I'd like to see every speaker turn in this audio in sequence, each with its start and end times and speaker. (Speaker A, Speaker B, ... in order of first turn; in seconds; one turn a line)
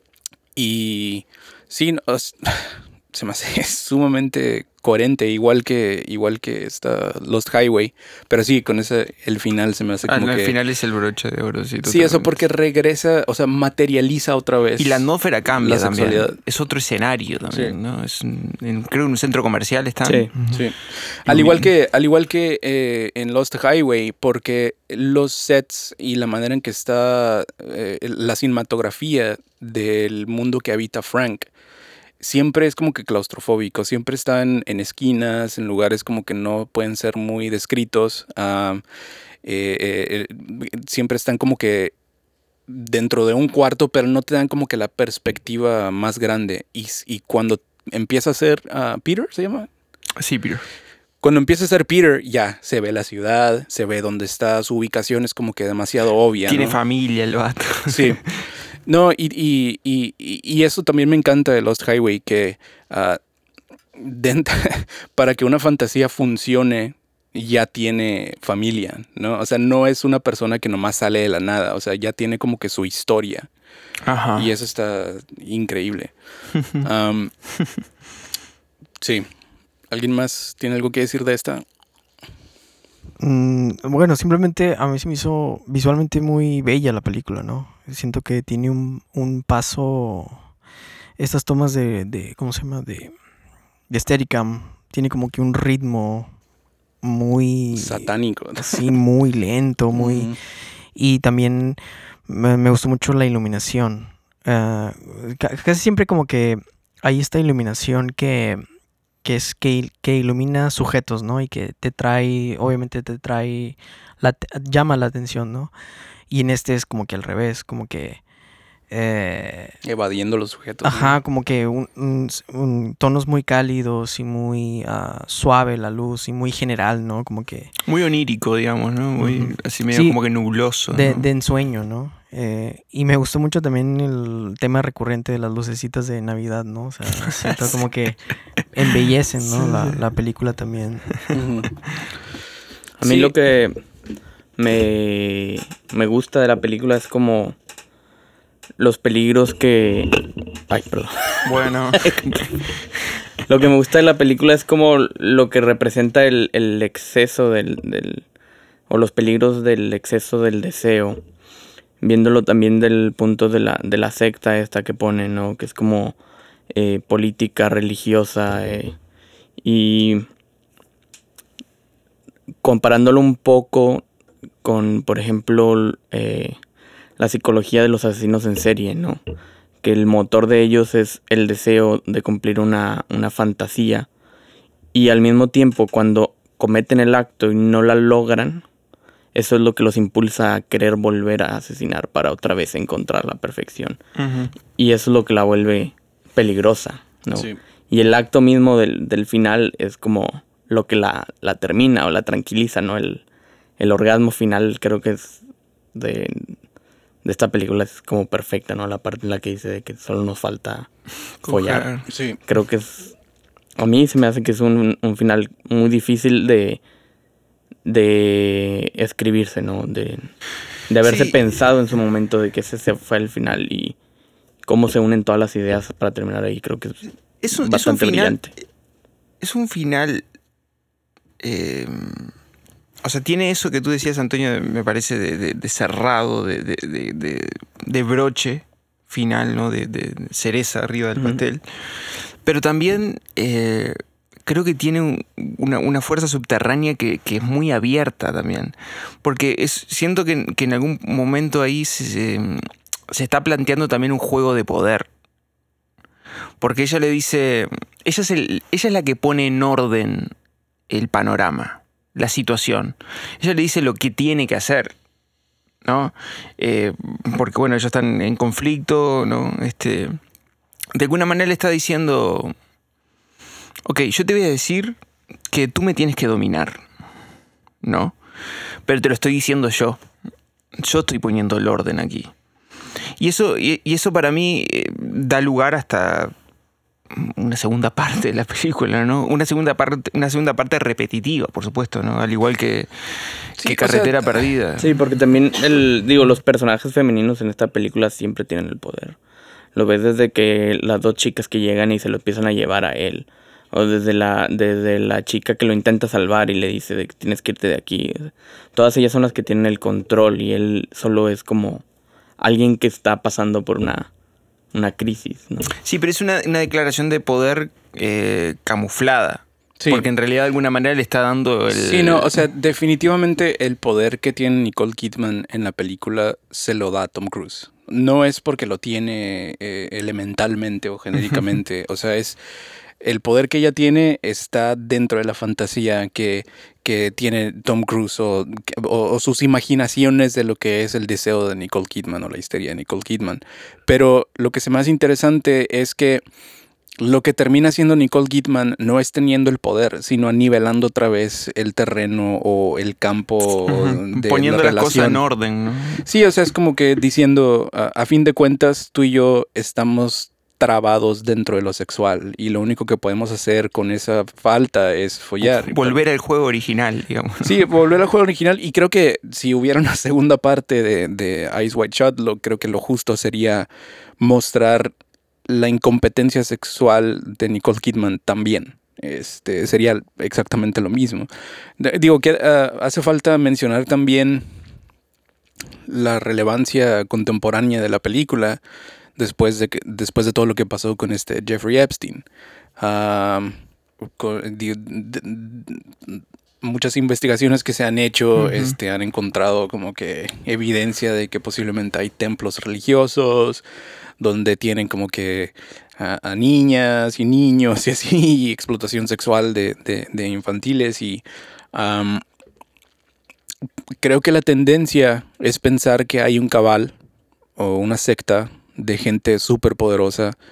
Speaker A: 0.6-10.5
Speaker B: 10.0-12.3
Speaker A: 11.8-16.4
Speaker B: 14.8-20.5
Speaker C: 20.0-20.3
Speaker D: 20.3-20.6
Speaker A: 20.5-31.5
Speaker B: 21.3-21.6
Speaker A: 32.2-38.8
Speaker A: 39.4-41.9
Speaker A: 42.7-49.7
Speaker B: 50.2-50.6
Speaker A: 51.2-56.8
Speaker B: 56.5-58.4
Speaker A: 57.9-58.2
Speaker A: 58.9-63.2
Speaker A: 64.0-73.5
Speaker B: 74.0-74.5
Speaker A: 74.3-76.1
Speaker B: 76.6-76.8
Speaker A: 76.7-77.3
Speaker A: 79.0-79.3
Speaker A: 79.9-81.6
Speaker D: 83.2-90.4
Speaker D: 91.2-93.1
Speaker D: 93.9-96.3
Speaker D: 97.0-100.3
Speaker A: 97.7-99.0
Speaker A: 99.9-100.4
Speaker D: 100.9-108.6
Speaker D: 109.2-115.7
Speaker D: 116.3-118.2
Speaker D: 118.9-119.8
Speaker A: 119.8-121.2
Speaker D: 120.8-127.7
Speaker B: 127.8-131.3
Speaker D: 129.2-130.2
Speaker D: 130.9-141.1
Speaker B: 137.3-137.8
Speaker B: 139.4-140.0
Speaker A: 141.3-141.7
Speaker C: 143.0-143.8
Speaker B: 143.0-143.3
Speaker C: 144.6-147.6
Speaker C: 148.8-152.4
Speaker B: 151.4-152.4
Speaker C: 153.4-158.2
Speaker C: 158.9-161.2
Speaker C: 162.0-166.2
Speaker C: 166.7-169.0
Speaker C: 169.6-170.3
Speaker C: 172.6-174.1
Speaker C: 174.6-176.6
Speaker C: 177.2-179.2
Speaker C: 179.8-184.1
Speaker C: 184.9-188.6
Speaker C: 189.3-194.0
Speaker B: 194.2-194.5
Speaker C: 194.8-203.2
Speaker C: 203.8-205.4
Speaker C: 205.9-206.6
Speaker C: 207.2-210.9
Speaker B: 211.4-212.0
Speaker C: 211.5-211.9
Speaker A: 212.1-212.4
Speaker C: 212.4-213.2
Speaker C: 213.8-216.8
Speaker C: 217.8-220.3
Speaker C: 220.9-224.0
Speaker B: 221.0-221.4
Speaker C: 224.6-227.0
Speaker B: 227.4-228.5
Speaker C: 227.5-228.5
Speaker B: 229.4-230.2
Speaker B: 231.4-232.3
Speaker B: 233.0-255.1
Speaker C: 241.2-241.4
Speaker B: 256.6-260.3
Speaker B: 260.9-264.9
Speaker B: 265.8-270.2
Speaker B: 270.9-272.5
Speaker B: 273.8-276.9
Speaker B: 277.8-278.2
Speaker B: 278.8-280.0
Speaker B: 280.8-282.3
Speaker B: 283.2-286.3
Speaker B: 287.1-294.9
Speaker A: 293.6-294.5
Speaker C: 294.8-299.2
Speaker C: 299.7-311.8
Speaker C: 312.4-314.1
Speaker C: 314.7-315.7
Speaker B: 315.8-322.4
Speaker A: 319.8-320.1
Speaker A: 321.7-332.4
Speaker A: 333.0-346.2
Speaker A: 347.0-355.2
Speaker B: 353.6-356.0
Speaker A: 356.0-366.0
Speaker B: 365.4-367.6
Speaker A: 367.4-373.7
Speaker A: 374.2-374.9
Speaker A: 375.5-384.6
Speaker A: 385.9-388.6
Speaker A: 389.2-392.2
Speaker A: 392.8-403.6
Speaker B: 398.4-398.8
Speaker A: 404.2-412.2
Speaker A: 414.0-416.9
Speaker A: 417.6-420.3